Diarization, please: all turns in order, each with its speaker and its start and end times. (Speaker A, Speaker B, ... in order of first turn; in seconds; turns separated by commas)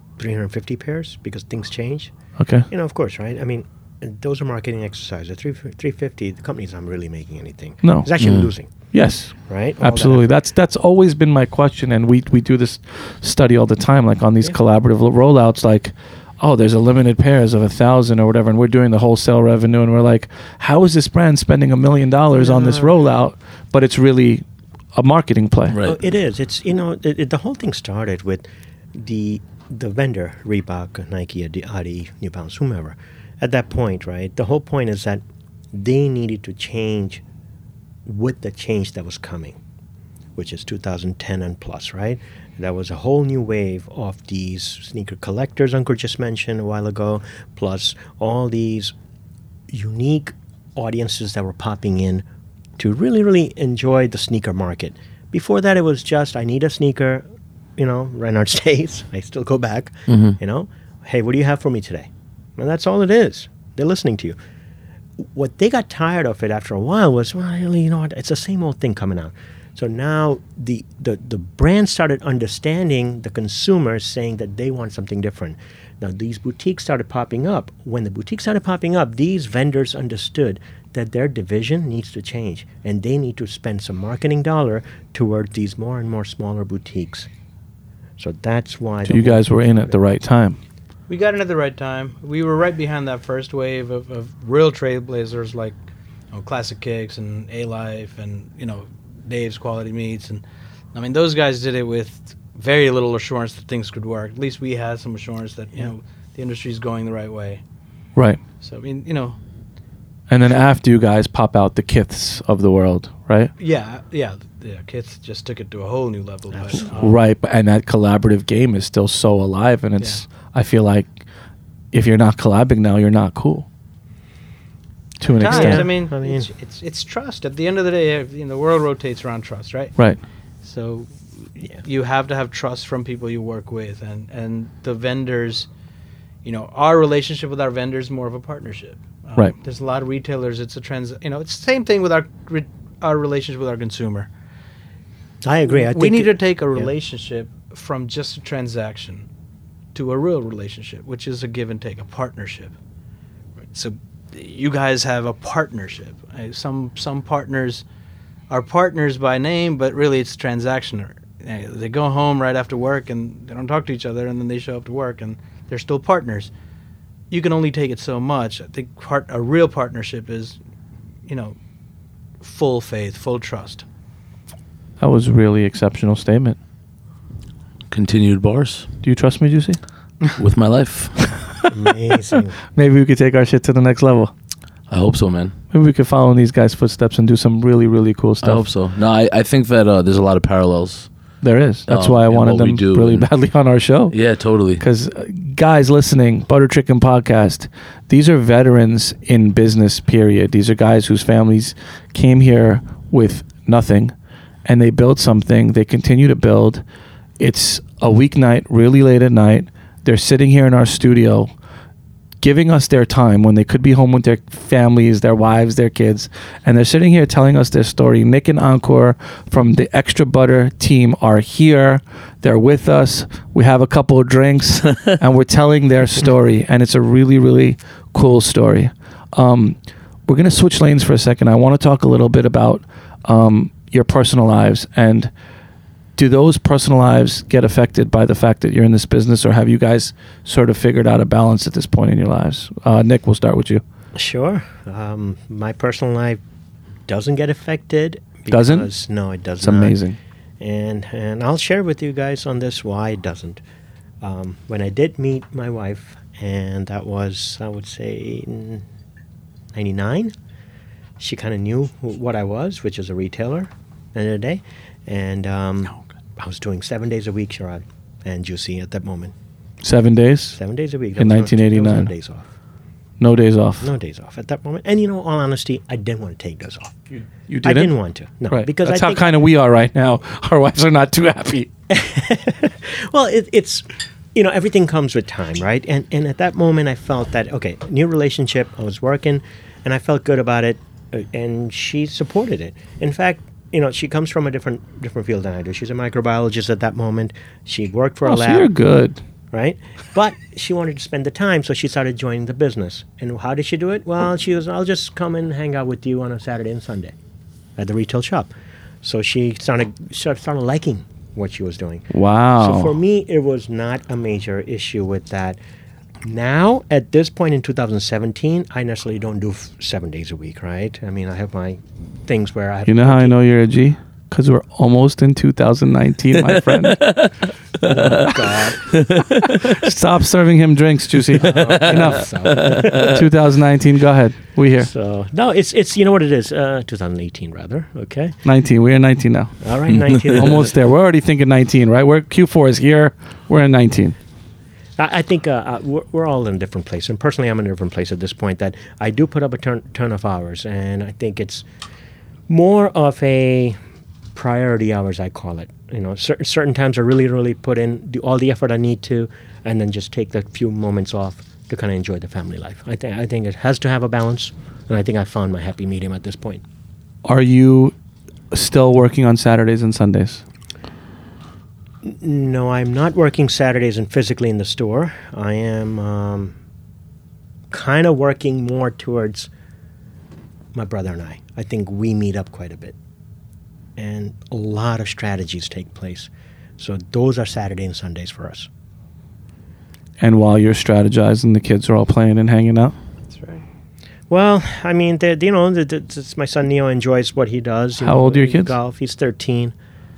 Speaker A: 0.2-2.1, Speaker B: 2.4-2.7, Speaker A: 2.7-8.7, Speaker B: 7.8-25.8, Speaker C: 8.2-8.5, Speaker A: 9.3-10.3, Speaker A: 22.4-23.0, Speaker C: 25.7-26.0, Speaker A: 25.8-35.2, Speaker A: 35.7-37.2, Speaker A: 38.0-39.6, Speaker A: 40.3-48.9, Speaker A: 49.7-52.3, Speaker A: 52.8-57.3, Speaker A: 57.8-64.4, Speaker C: 60.1-60.4, Speaker A: 65.2-87.3, Speaker A: 88.2-90.0, Speaker B: 89.0-90.6, Speaker D: 91.1-95.8, Speaker D: 96.3-100.4, Speaker D: 100.9-107.6, Speaker B: 108.1-108.4, Speaker D: 108.6-109.4, Speaker B: 110.3-113.5, Speaker D: 113.6-117.2, Speaker A: 116.5-117.0, Speaker B: 116.8-121.1, Speaker D: 120.0-120.2, Speaker B: 121.9-123.7, Speaker B: 125.2-125.9, Speaker D: 125.4-135.7, Speaker A: 125.5-126.5, Speaker D: 136.4-144.3, Speaker A: 145.4-146.9, Speaker D: 145.6-149.3, Speaker D: 149.9-152.7, Speaker D: 153.7-157.8, Speaker D: 158.5-166.5, Speaker D: 167.3-170.6, Speaker D: 171.3-171.6, Speaker D: 172.4-173.8, Speaker B: 175.0-176.6, Speaker C: 177.9-178.9, Speaker B: 179.0-179.8, Speaker C: 180.4-181.5, Speaker A: 181.7-182.6, Speaker B: 182.7-184.3, Speaker C: 184.9-185.6, Speaker B: 185.7-188.7, Speaker C: 188.4-191.1, Speaker B: 191.4-204.1, Speaker C: 191.9-193.3, Speaker C: 194.1-194.8, Speaker B: 204.6-206.8, Speaker B: 207.4-211.5, Speaker B: 212.4-235.3, Speaker B: 236.2-243.8, Speaker A: 244.1-246.4, Speaker A: 247.1-250.0, Speaker B: 248.5-248.9, Speaker B: 249.6-250.2, Speaker A: 250.6-253.6, Speaker A: 254.2-258.9, Speaker A: 259.7-260.3, Speaker A: 261.2-269.3, Speaker B: 269.8-270.6, Speaker A: 270.5-272.4, Speaker B: 271.2-272.1, Speaker B: 273.2-273.9, Speaker A: 273.8-277.1, Speaker B: 277.5-277.9, Speaker A: 277.6-279.2, Speaker B: 278.5-281.7, Speaker A: 281.9-298.7, Speaker B: 298.2-299.2, Speaker A: 299.5-307.1, Speaker A: 307.8-308.5, Speaker A: 309.0-315.6, Speaker B: 312.1-312.9, Speaker A: 316.2-323.4, Speaker B: 322.9-327.1, Speaker C: 326.8-329.2, Speaker A: 327.8-329.0, Speaker B: 329.4-334.9, Speaker A: 331.4-333.2, Speaker C: 331.5-333.2, Speaker A: 334.8-338.4, Speaker B: 338.4-344.1, Speaker A: 339.6-340.7, Speaker C: 339.9-340.3, Speaker A: 345.0-351.7, Speaker A: 352.5-353.8, Speaker A: 354.3-366.6, Speaker B: 367.2-367.9, Speaker B: 368.5-370.4, Speaker A: 372.0-376.6, Speaker A: 377.7-379.5, Speaker A: 380.7-382.9, Speaker A: 383.9-388.7, Speaker B: 390.2-392.9, Speaker D: 393.3-393.6, Speaker A: 394.3-399.7, Speaker B: 398.0-398.7